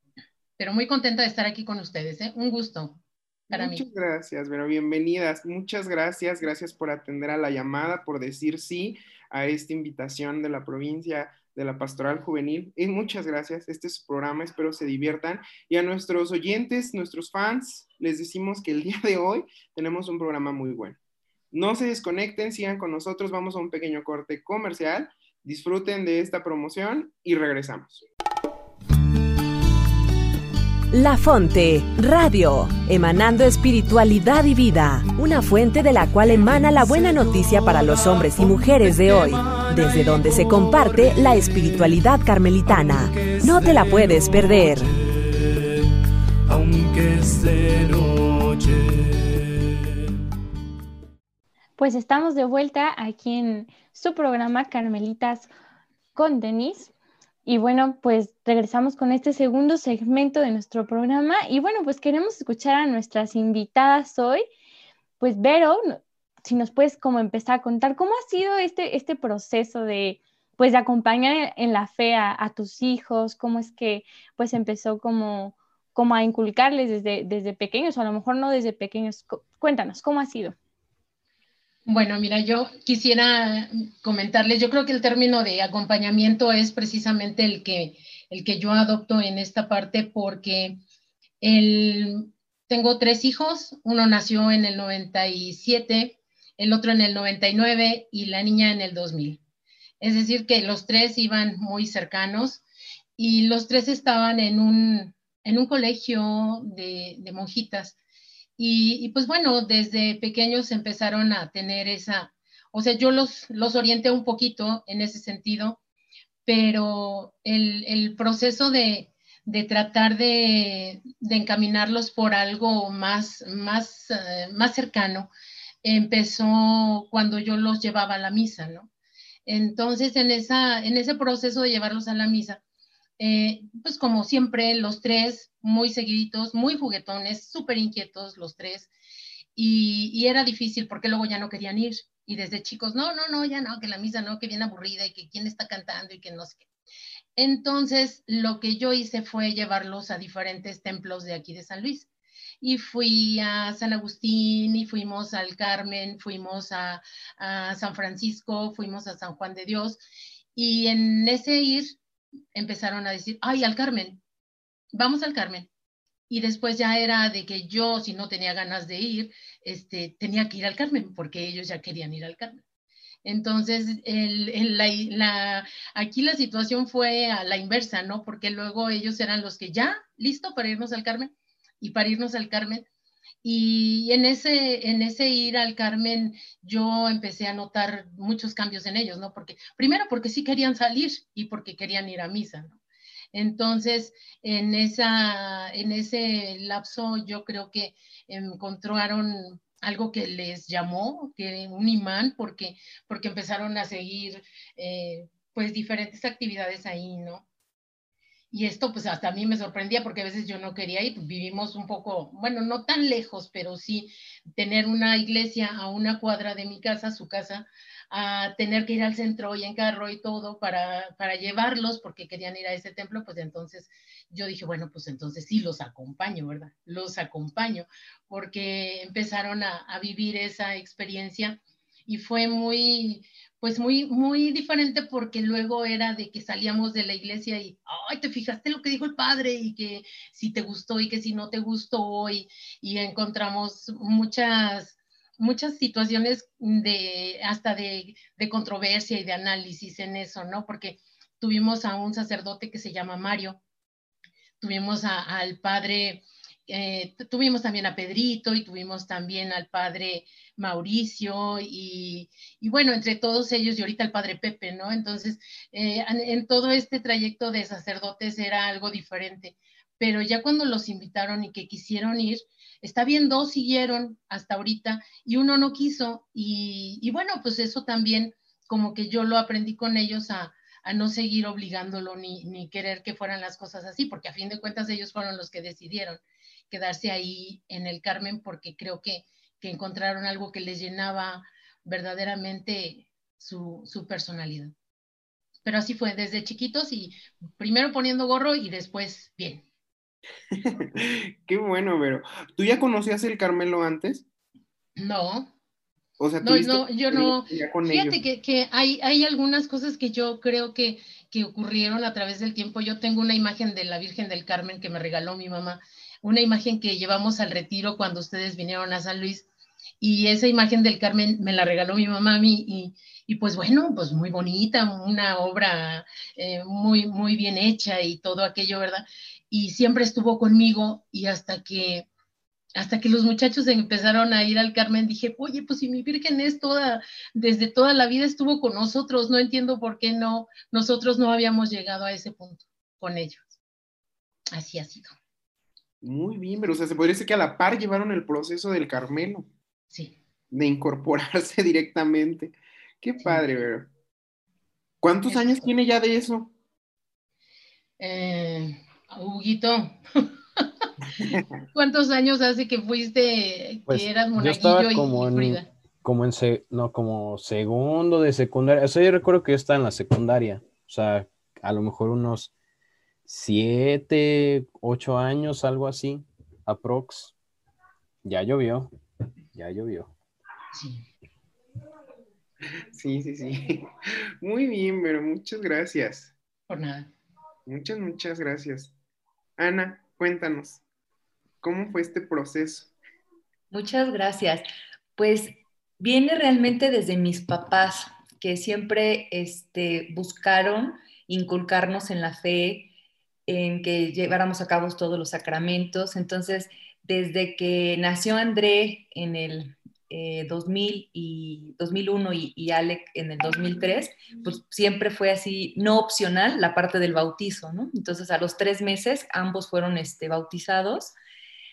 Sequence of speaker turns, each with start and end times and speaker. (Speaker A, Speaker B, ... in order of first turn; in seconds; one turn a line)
Speaker A: 0.6-3.8
Speaker B: 3.5-21.0
Speaker B: 21.5-28.0
Speaker C: 30.9-44.9
Speaker D: 36.1-45.9
Speaker D: 46.5-49.7
Speaker E: 51.8-55.5
Speaker E: 56.1-56.9
Speaker E: 57.5-64.5
Speaker E: 65.2-80.5
Speaker A: 81.8-90.8
Speaker A: 91.4-99.4
Speaker A: 100.0-102.6
Speaker A: 103.2-108.0
Speaker A: 108.6-115.8
Speaker A: 116.5-125.3
Speaker A: 125.8-128.9
Speaker A: 129.4-132.6
Speaker A: 133.2-138.9
Speaker A: 139.6-146.7
Speaker A: 147.3-152.1
Speaker A: 152.6-160.0
Speaker A: 160.5-162.0
Speaker A: 162.5-164.2
Speaker A: 164.9-165.7
Speaker A: 166.3-172.6
Speaker A: 173.2-182.8
Speaker A: 183.4-192.8
Speaker A: 193.3-207.4
Speaker A: 208.5-253.6
Speaker A: 254.6-294.7
Speaker A: 295.6-299.6
Speaker B: 300.5-304.2
Speaker A: 305.0-305.5
Speaker B: 306.2-308.2
Speaker A: 306.4-319.4
Speaker A: 320.0-332.1
Speaker A: 332.7-343.5
Speaker A: 344.5-345.1
Speaker B: 346.0-349.5
Speaker A: 349.9-350.2
Speaker B: 350.5-353.9
Speaker B: 355.0-356.5
Speaker A: 355.3-355.7
Speaker A: 358.0-360.0
Speaker B: 361.2-361.6
Speaker A: 361.7-365.7
Speaker F: 363.9-372.5
Speaker F: 373.2-377.4
Speaker F: 378.2-378.9
Speaker F: 379.5-380.1
Speaker A: 380.7-381.0
Speaker B: 382.9-383.9
Speaker B: 384.4-386.3
Speaker A: 386.7-387.1
Speaker B: 387.7-388.9
Speaker B: 389.6-390.8
Speaker B: 391.6-392.9
Speaker G: 393.7-394.6
Speaker G: 395.2-402.9
Speaker G: 403.5-421.1